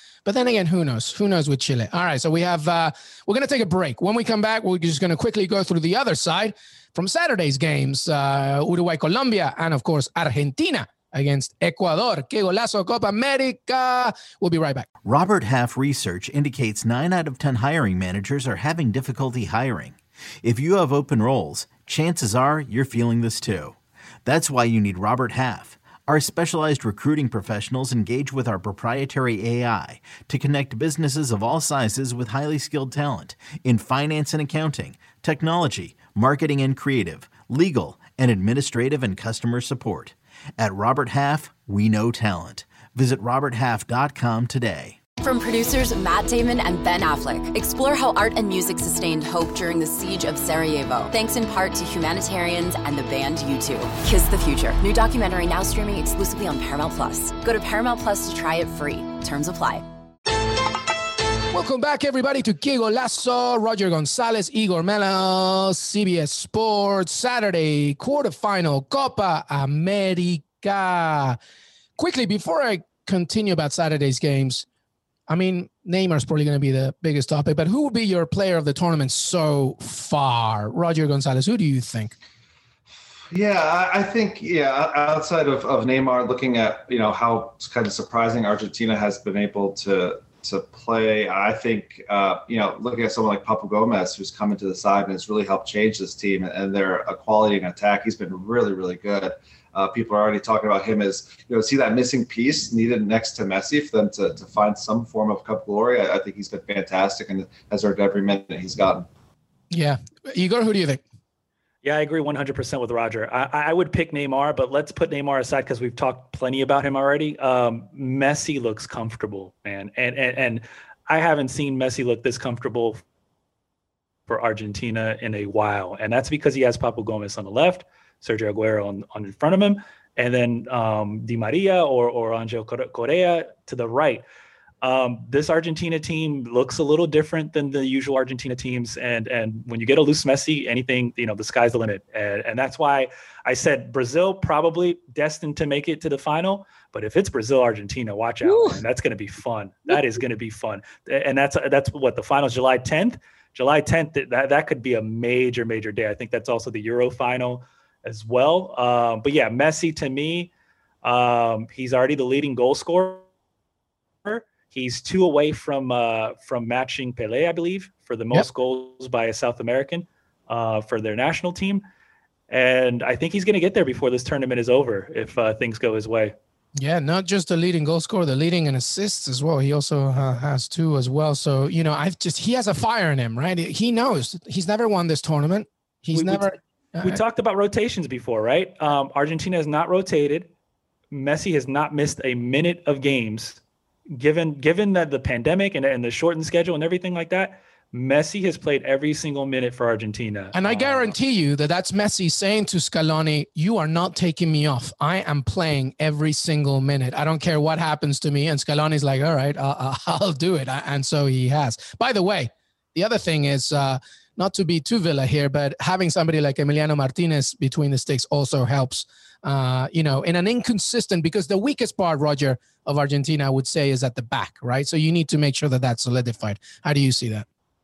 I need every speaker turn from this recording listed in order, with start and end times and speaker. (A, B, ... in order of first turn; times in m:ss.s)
0:00.2-0:14.9 A
0:15.0-0:45.0 B
0:45.2-0:59.8 C
1:01.5-1:11.4 A
1:12.0-1:14.6 A
1:15.3-1:22.2 A
1:23.3-1:49.1 D
1:49.7-1:51.0 A
1:51.8-2:03.0 E
2:04.3-2:14.2 E
2:14.8-2:40.5 E
2:28.4-2:28.8 A
2:41.0-2:43.2 E
2:44.2-2:51.8 E
2:52.5-2:56.3 E
2:56.8-3:07.2 A
3:06.1-3:06.5 E
3:07.0-3:10.5 E
3:11.1-3:13.6 E
3:14.1-3:21.1 E
3:20.5-3:47.4 A